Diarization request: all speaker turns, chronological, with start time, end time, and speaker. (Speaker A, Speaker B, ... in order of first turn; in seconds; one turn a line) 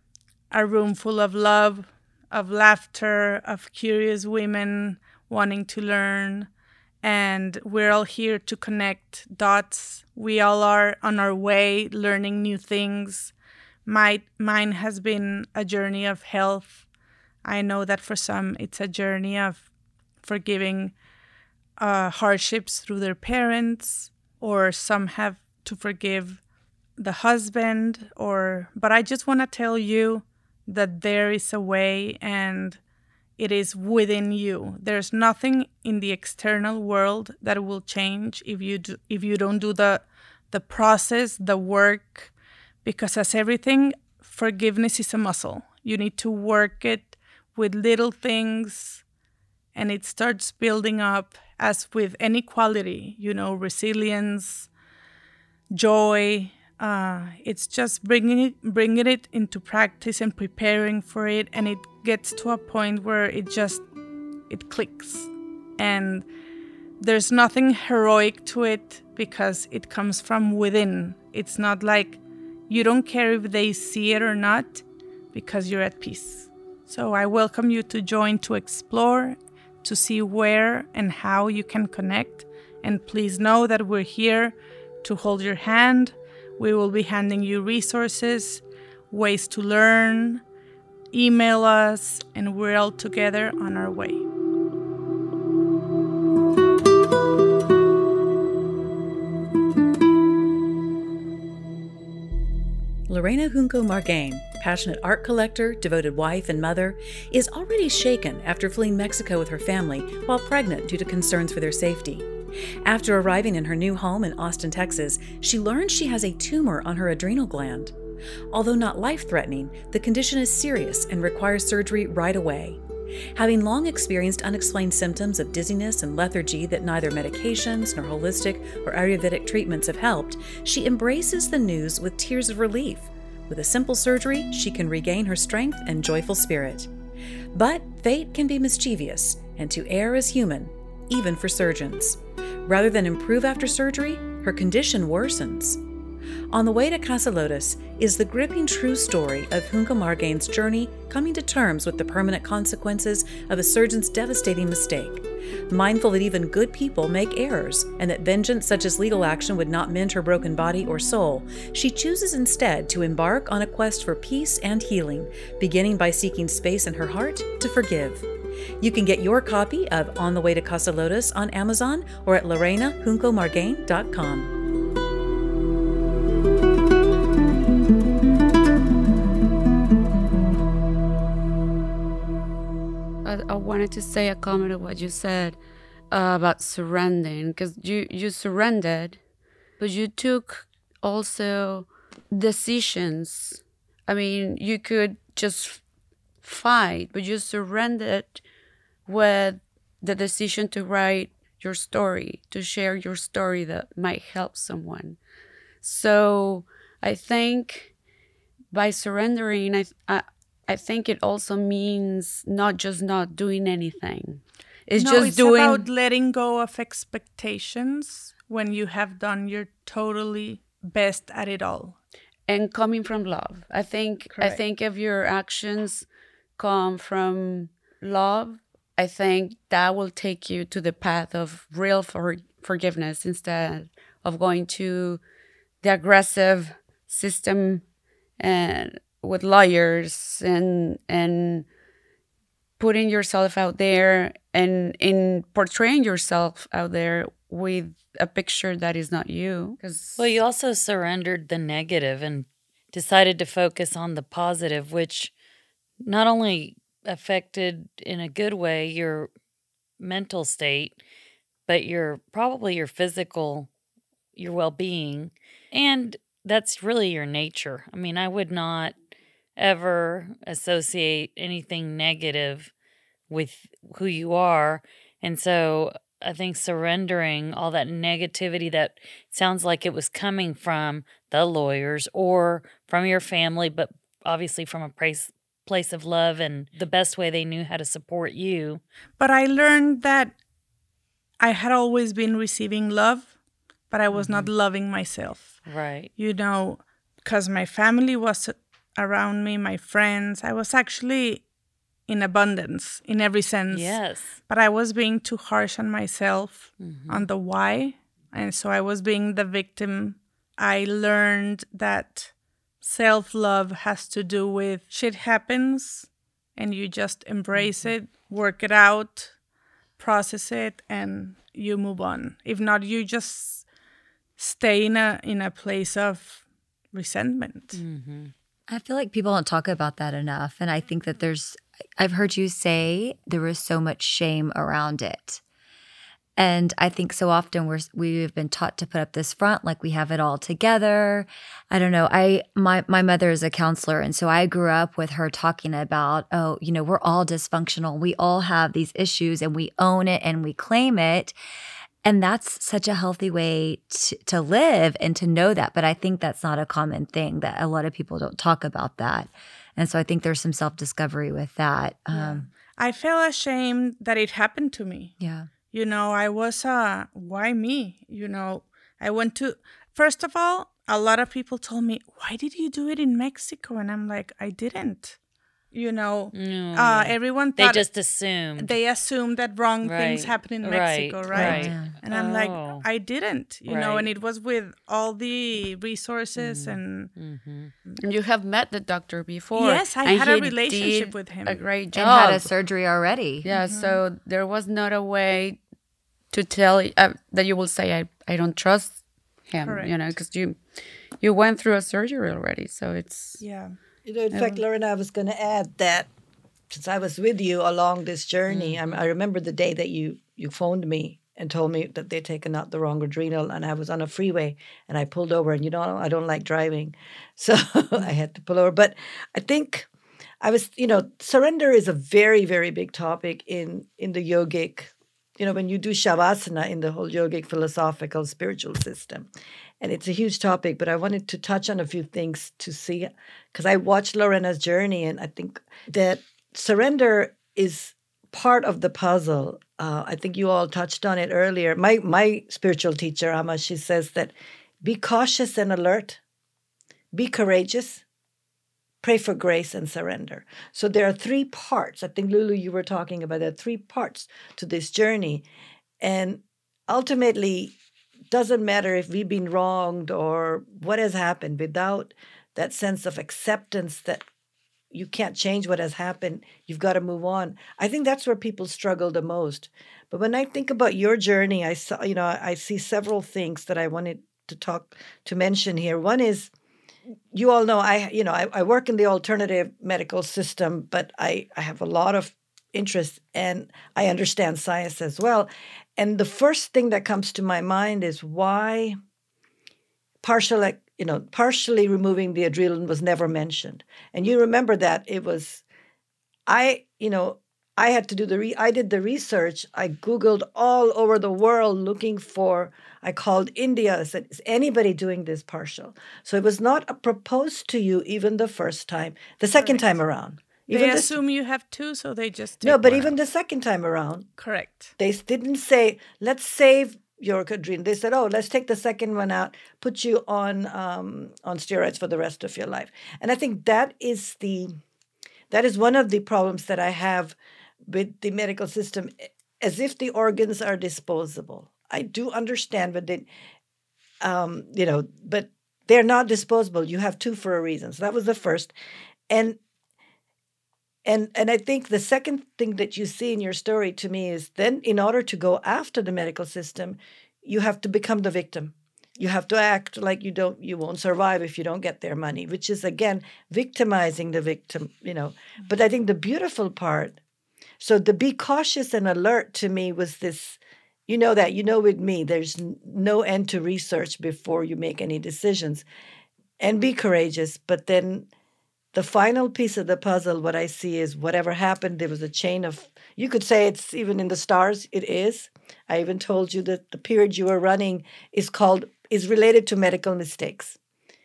Speaker A: 0.5-6.5
Speaker A: 7.0-13.3
Speaker A: 13.9-16.9
Speaker A: 17.4-19.7
Speaker A: 20.2-20.9
Speaker A: 21.8-26.4
Speaker A: 27.0-32.8
Speaker A: 33.4-42.3
Speaker A: 42.8-49.0
Speaker A: 49.7-54.7
Speaker A: 55.7-63.8
Speaker A: 64.5-66.3
Speaker A: 67.0-90.4
Speaker A: 91.1-94.2
Speaker B: 103.1-112.3
Speaker B: 112.8-117.9
Speaker B: 118.5-122.8
Speaker B: 123.3-136.9
Speaker B: 137.5-145.8
Speaker B: 146.5-168.3
Speaker B: 168.8-174.5
Speaker C: 183.2-185.6
Speaker C: 186.1-189.2
Speaker C: 189.8-195.8
Speaker C: 196.4-198.4
Speaker C: 199.1-205.2
Speaker C: 205.8-207.9
Speaker C: 208.7-215.9
Speaker A: 214.9-222.0
Speaker C: 222.5-235.2
Speaker A: 224.3-224.6
Speaker C: 235.8-237.8
Speaker C: 238.4-241.7
Speaker C: 242.8-250.4
Speaker D: 250.2-255.3
Speaker D: 256.0-259.3
Speaker D: 260.0-261.0
Speaker D: 261.7-263.7
Speaker D: 264.4-269.0
Speaker D: 269.6-272.7
Speaker D: 273.3-288.8
Speaker A: 289.2-290.4
Speaker A: 291.4-293.3
Speaker A: 293.9-295.6
Speaker D: 294.1-294.5
Speaker D: 295.6-296.1
Speaker A: 296.2-301.4
Speaker A: 302.1-319.4
Speaker D: 303.7-304.4
Speaker D: 306.8-307.3
Speaker A: 320.0-323.6
Speaker A: 324.4-327.8
Speaker D: 327.8-328.3
Speaker E: 328.7-335.4
Speaker E: 336.4-351.4
Speaker E: 352.0-362.5
Speaker A: 362.1-365.1
Speaker E: 365.2-365.5
Speaker A: 365.7-375.2
Speaker A: 375.7-377.9
Speaker D: 376.3-378.8
Speaker A: 378.6-387.1
Speaker D: 379.8-382.9
Speaker E: 381.3-382.0
Speaker D: 383.7-384.1
Speaker D: 386.4-387.7
Speaker C: 388.0-392.6
Speaker A: 389.5-391.6
Speaker E: 391.9-393.5
Speaker C: 393.4-395.6
Speaker A: 393.6-394.0
Speaker C: 396.3-400.6
Speaker A: 399.6-399.9
Speaker C: 401.2-403.4
Speaker A: 403.4-403.8
Speaker F: 404.1-406.1
Speaker C: 404.3-404.6
Speaker F: 406.7-419.9
Speaker F: 420.4-429.3
Speaker F: 429.8-446.2
Speaker F: 447.1-448.0
Speaker F: 449.0-455.4
Speaker F: 456.0-457.8
Speaker F: 458.3-464.2
Speaker F: 464.9-476.5
Speaker F: 477.3-489.0
Speaker F: 490.2-495.6
Speaker F: 496.5-511.2
Speaker A: 509.6-510.0
Speaker A: 510.7-513.2
Speaker F: 512.6-514.3
Speaker A: 514.4-514.9
Speaker F: 515.0-524.8
Speaker F: 525.5-533.3
Speaker F: 534.2-538.7
Speaker F: 539.3-539.6
Speaker F: 541.0-557.2
Speaker F: 557.8-565.8
Speaker F: 566.6-568.3
Speaker F: 568.9-580.8